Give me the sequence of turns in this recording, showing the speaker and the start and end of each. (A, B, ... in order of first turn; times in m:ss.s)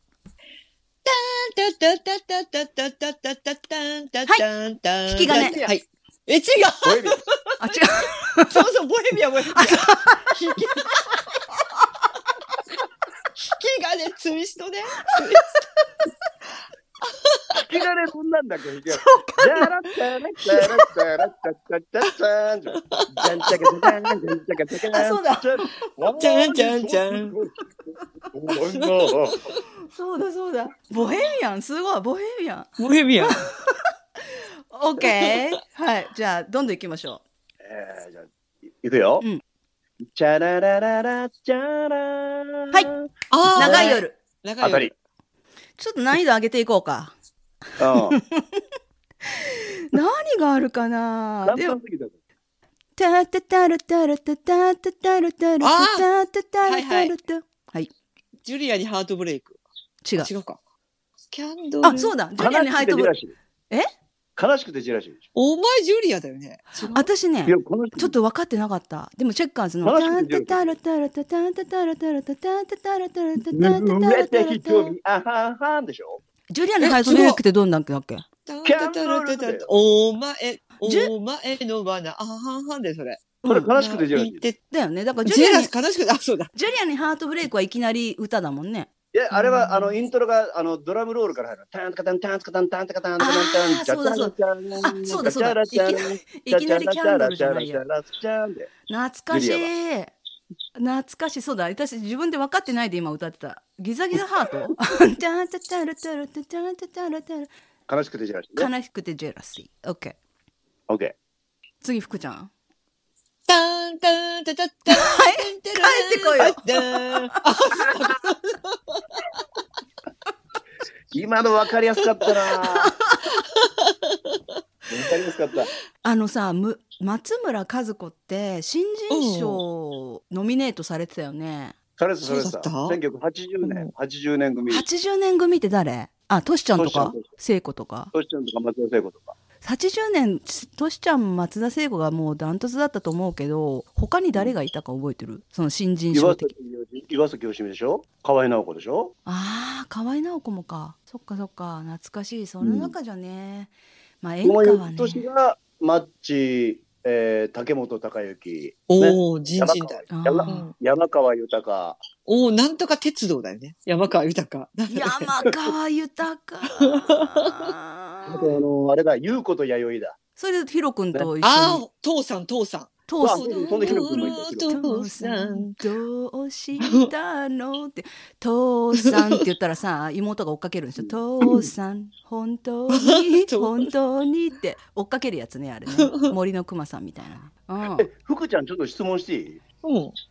0:01.0-0:11.2 A
0:05.0-0:05.6 B
0:05.2-0:05.7 C
0:06.8-0:07.2 C
0:07.6-0:08.6 B
0:09.5-0:10.3 B
0:13.4-0:15.4 A
0:15.2-0:15.6 B
0:17.3-0:17.6 A
0:17.5-0:29.4 C
0:18.9-0:19.7 B
0:22.9-0:23.7 A
0:24.9-0:25.6 B
0:26.2-0:27.4 A
0:28.7-0:29.5 A
0:29.9-0:32.7 B
0:32.8-0:33.5 A
0:33.2-0:37.2 B
0:37.6-0:39.2 C
0:40.0-0:44.0 C
0:43.3-0:44.9 A
0:43.6-0:44.2 B
0:44.6-0:44.9 C
0:45.8-0:47.1 B
0:47.8-0:48.2 C
0:47.9-0:48.6 B
0:49.2-0:51.8 B
0:51.4-0:52.2 C
0:53.0-0:57.9 B
0:55.6-0:56.1 A
0:56.6-0:57.1 A
0:58.4-0:59.6 A
1:00.0-1:00.3 B
1:00.2-1:00.6 A
1:01.3-1:02.1 A
1:01.8-1:03.1 B
1:02.4-1:03.3 C
1:04.4-1:05.2 C
1:05.3-1:07.1 A
1:06.9-1:14.9 B
1:07.4-1:08.1 C
1:09.8-1:10.8 C
1:13.5-1:16.2 C
1:16.5-1:18.2 B
1:16.8-1:17.4 A
1:18.4-1:24.6 A
1:18.6-1:19.7 C
1:20.8-1:21.1 B
1:23.4-1:24.4 C
1:24.7-1:25.7 B
1:25.2-1:26.5 A
1:26.5-1:29.9 B
1:29.1-1:38.7 C
1:33.2-1:37.8 B
1:38.9-1:40.1 B
1:39.3-1:39.7 C
1:40.8-1:47.5 B
1:47.9-1:48.7 C
1:48.6-1:50.2 B
1:50.9-1:51.1 C
1:51.8-1:52.5 B
1:53.5-1:59.2 A
1:54.9-1:57.4 B
2:01.1-2:02.9 C
2:02.7-2:03.2 B
2:03.6-2:04.4 A
2:04.9-2:05.7 C
2:06.0-2:11.8 B
2:09.1-2:09.6 A
2:12.0-2:14.8 C
2:12.2-2:13.0 A
2:13.6-2:13.9 A
2:14.7-2:18.1 B
2:16.8-2:17.3 C
2:18.1-2:19.3 C
2:19.6-2:26.5 B
2:26.1-2:29.1 C
2:29.2-2:35.2 B
2:32.6-2:32.9 C
2:34.4-2:42.0 C
2:38.9-2:40.7 A
2:40.1-2:40.7 B
2:42.2-2:45.3 A
2:44.9-2:48.6 B
2:46.8-2:47.7 A
2:48.3-2:50.2 C
2:50.4-2:51.8 B
2:51.4-2:55.8 A
2:53.1-3:08.1 B
2:53.2-2:54.7 C
2:56.8-2:57.1 A
3:02.9-3:03.9 A
3:06.0-3:06.3 A
3:07.9-3:09.6 C
3:09.8-3:10.1 A